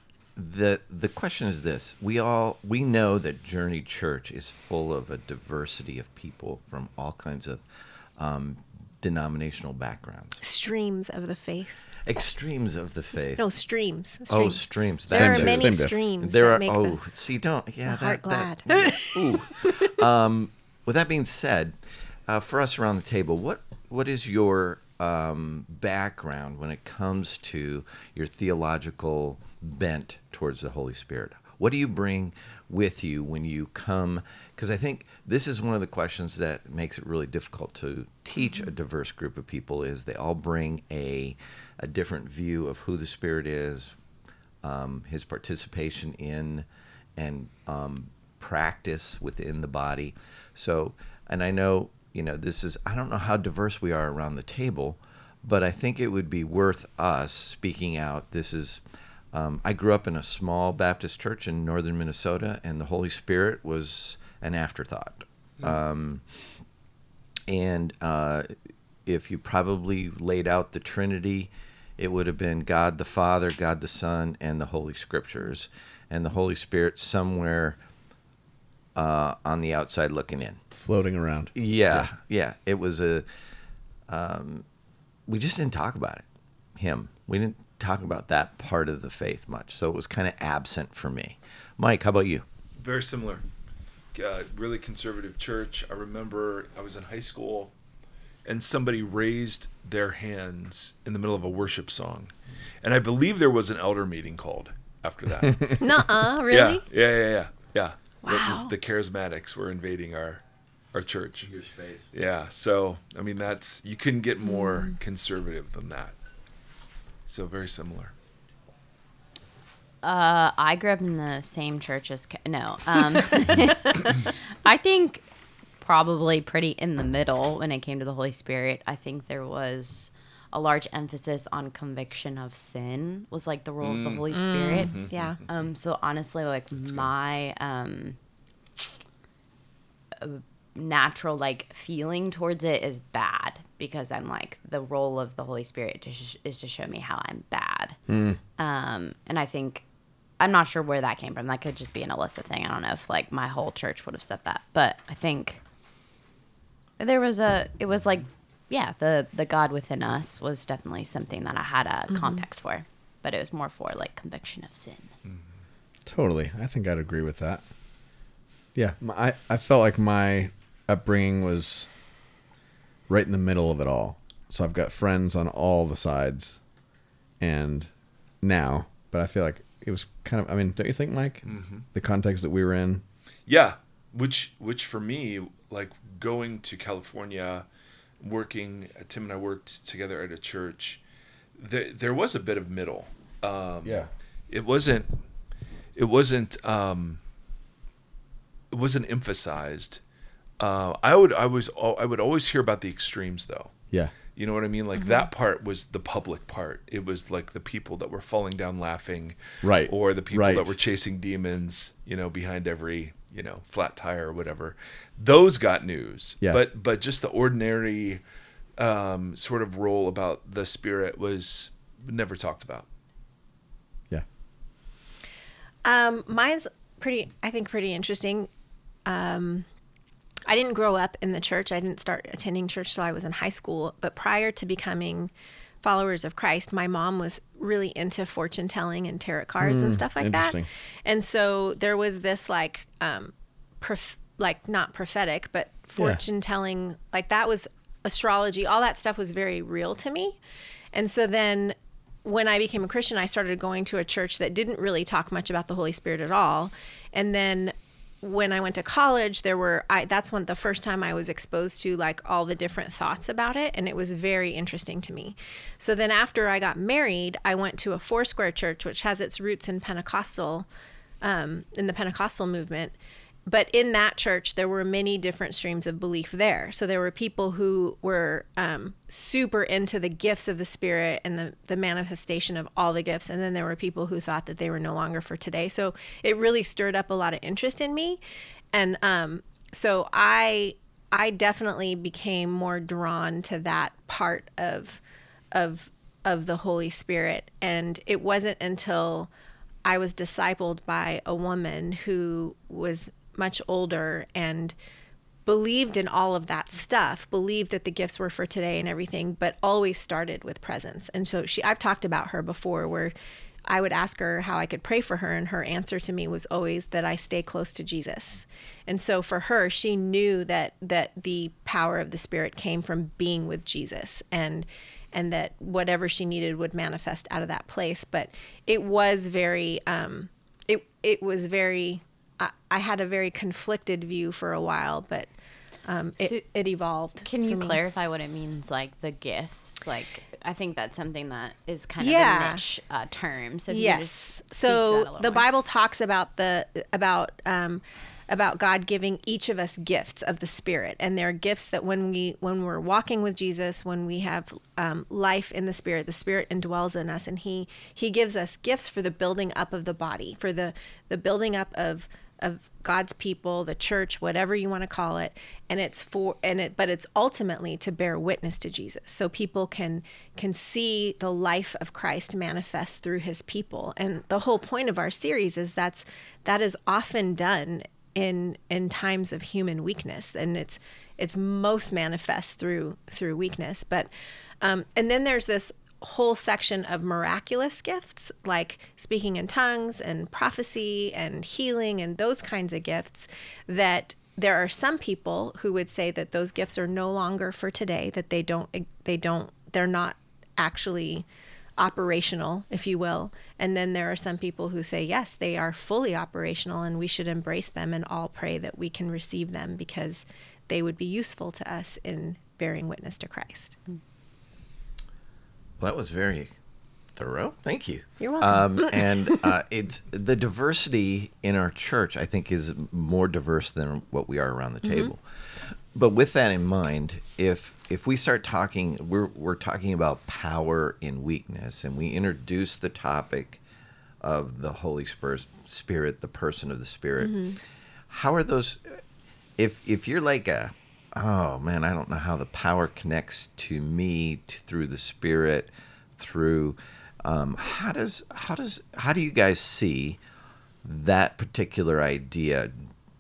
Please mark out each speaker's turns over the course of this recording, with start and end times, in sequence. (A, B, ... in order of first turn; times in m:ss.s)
0:00.4-0:07.6 A
0:08.2-0:10.4 A
0:10.4-0:11.8 B
0:12.0-0:13.4 A
0:13.4-0:17.0 B
0:14.3-0:43.9 A
0:15.1-0:16.0 C
0:17.8-0:19.2 B
0:44.6-0:58.8 A
0:59.3-1:06.2 A
1:07.5-1:08.5 A
1:09.0-1:17.8 A
1:18.9-1:20.6 A
1:20.7-1:22.1 C
1:21.5-1:23.2 A
1:24.1-1:24.6 A
1:25.3-1:26.2 A
1:26.8-1:32.4 A
1:32.8-1:33.4 D
1:34.1-1:37.7 D
1:38.4-1:50.4 D
1:45.8-1:46.8 B
1:48.2-1:48.7 B
1:50.9-1:51.5 D
1:51.4-1:52.1 A
1:52.1-1:56.1 D
1:57.3-1:58.1 D
2:00.0-2:05.3 E
2:05.8-2:18.2 E
2:13.8-2:15.1 D
2:14.3-2:15.4 B
2:20.2-2:28.0 E
2:28.1-2:28.4 C
2:28.6-2:29.8 E
2:30.4-2:35.6 E
2:37.0-2:45.1 E
2:42.1-2:42.4 B
2:46.0-2:47.6 C
2:48.7-2:51.9 C
2:53.1-2:56.6 C
2:57.4-2:57.9 C
2:58.4-3:03.0 C
3:01.4-3:01.8 D
3:03.5-3:07.6 D
3:08.2-3:11.0 D
3:11.6-3:15.1 D
3:13.8-3:14.1 C
3:16.0-3:17.2 D
3:18.7-3:20.0 D
3:20.6-3:23.7 D
3:24.3-3:38.2 D
3:25.0-3:25.3 B
3:29.6-3:30.7 C
3:38.8-3:42.8 D
3:45.8-3:48.5 B
3:49.0-3:49.6 B
3:50.5-3:55.3 B
3:55.8-4:10.4 B
3:59.6-4:00.7 C
4:10.9-4:30.7 B
4:31.2-4:48.2 B
4:48.7-4:55.0 B
4:55.5-4:59.3 B
4:59.8-5:04.7 B
5:05.4-5:13.1 B
5:13.7-5:35.3 B
5:35.8-5:37.8 B
5:37.2-5:45.5 E
5:42.0-5:42.6 B
5:43.7-6:24.1 B
6:24.6-6:41.2 B
6:41.8-6:53.8 B
6:55.8-6:56.5 A
6:57.2-7:13.6 A
6:58.2-6:59.4 B
7:04.8-7:05.1 B
7:14.2-7:17.5 A
7:17.2-7:17.6 B
7:18.1-7:19.0 A
7:19.6-7:30.2 A
7:30.8-7:32.9 A